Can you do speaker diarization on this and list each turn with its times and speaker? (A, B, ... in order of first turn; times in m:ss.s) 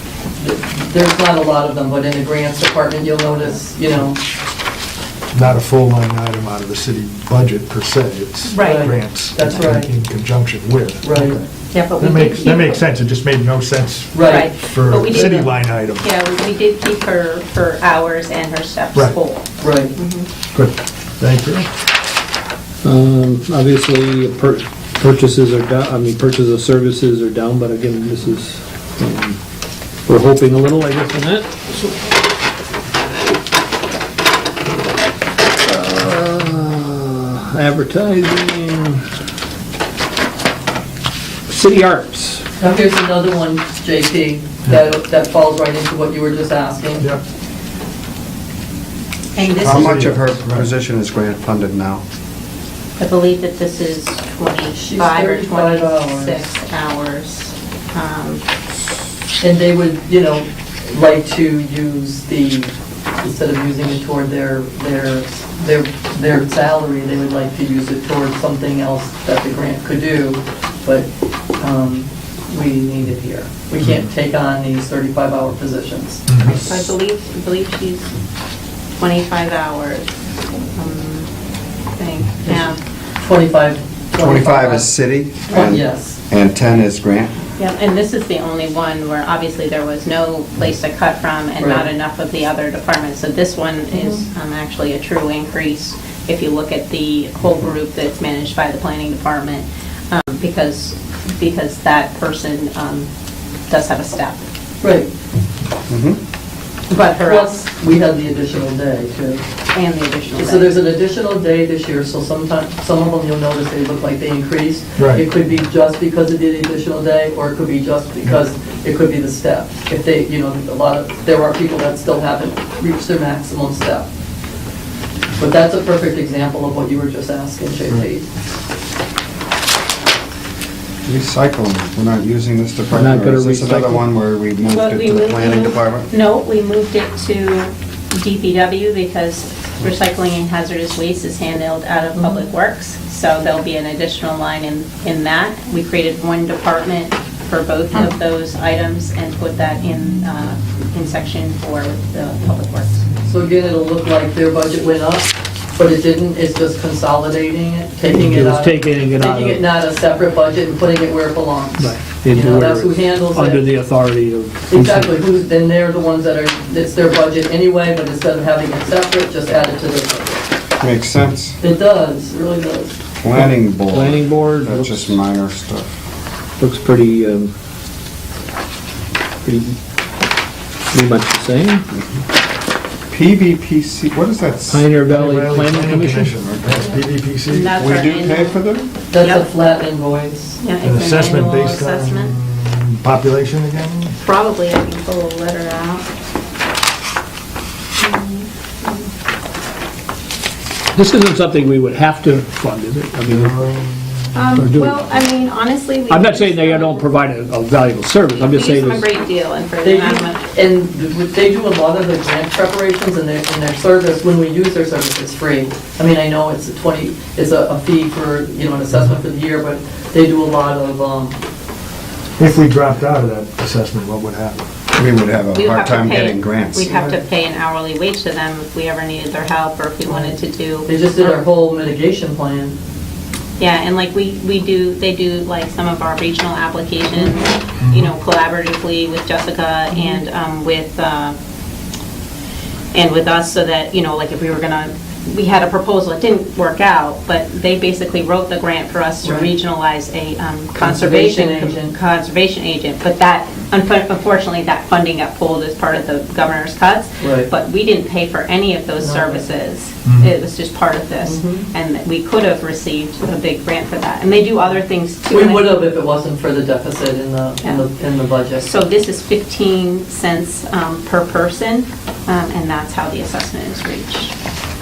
0:00.4-0:04.2 A
0:05.3-0:16.1 B
0:08.5-0:08.9 C
0:08.6-0:09.9 A
0:11.0-0:11.4 A
0:11.7-0:12.8 C
0:14.1-0:14.5 A
0:14.2-0:20.3 C
0:19.6-0:19.9 A
0:20.5-0:21.7 B
0:22.8-0:29.4 D
0:30.1-0:31.9 D
0:35.6-0:39.0 D
0:41.5-0:42.4 D
0:42.6-0:47.1 A
0:49.4-0:50.1 C
0:49.5-0:52.0 E
0:49.6-0:50.7 B
0:53.0-0:58.4 C
0:54.8-0:56.4 A
0:59.4-1:11.1 A
1:11.6-1:16.3 A
1:13.8-1:14.1 B
1:16.3-1:16.6 B
1:16.6-1:18.1 C
1:19.0-1:20.1 C
1:20.8-1:21.3 C
1:22.0-1:22.8 C
1:22.4-1:24.9 A
1:24.2-1:27.3 E
1:25.5-1:26.2 A
1:27.6-1:43.1 C
1:31.6-1:31.9 A
1:33.9-1:34.2 A
1:43.7-1:44.4 C
1:44.8-1:45.1 A
1:45.9-1:46.2 E
1:46.9-1:47.6 C
1:47.2-1:49.4 A
1:49.7-1:50.8 C
1:50.4-2:04.1 A
1:55.0-1:55.2 B
2:05.4-2:08.3 A
2:11.0-2:16.1 E
2:12.9-2:14.0 D
2:14.7-2:33.0 C
2:22.2-2:22.4 A
2:33.2-2:43.7 A
2:38.1-2:39.6 D
2:41.8-2:45.1 D
2:44.7-2:50.4 A
2:50.8-2:51.6 E
2:51.6-2:53.0 A
2:53.2-2:56.0 E
2:53.3-2:55.2 D
2:56.6-2:57.5 D
2:59.4-2:59.8 D
3:00.9-3:01.8 D
3:01.9-3:02.2 E
3:03.1-3:04.9 E
3:04.7-3:06.5 D
3:05.0-3:07.8 B
3:07.5-3:08.6 C
3:07.8-3:08.9 E
3:09.1-3:10.6 A
3:09.2-3:09.5 C
3:10.6-3:12.4 C
3:10.8-3:14.2 B
3:14.2-3:16.1 C
3:18.0-3:19.1 C
3:21.0-3:23.6 D
3:23.2-3:25.1 B
3:24.3-3:27.1 C
3:24.6-3:25.2 D
3:26.1-3:29.1 D
3:28.3-3:30.5 C
3:29.8-3:41.4 A
3:42.4-3:44.7 B
3:45.0-3:46.9 E
3:45.5-3:51.4 C
3:46.8-3:47.2 A
3:50.1-3:52.8 A
3:53.6-4:01.4 C
3:57.8-3:58.1 B
3:59.9-4:00.2 A
4:02.9-4:25.8 C
4:09.2-4:09.5 A
4:10.8-4:11.9 A
4:17.2-4:17.5 A
4:19.0-4:19.4 A
4:20.1-4:20.3 B
4:21.2-4:21.7 A
4:25.3-4:28.7 A
4:28.6-4:34.3 C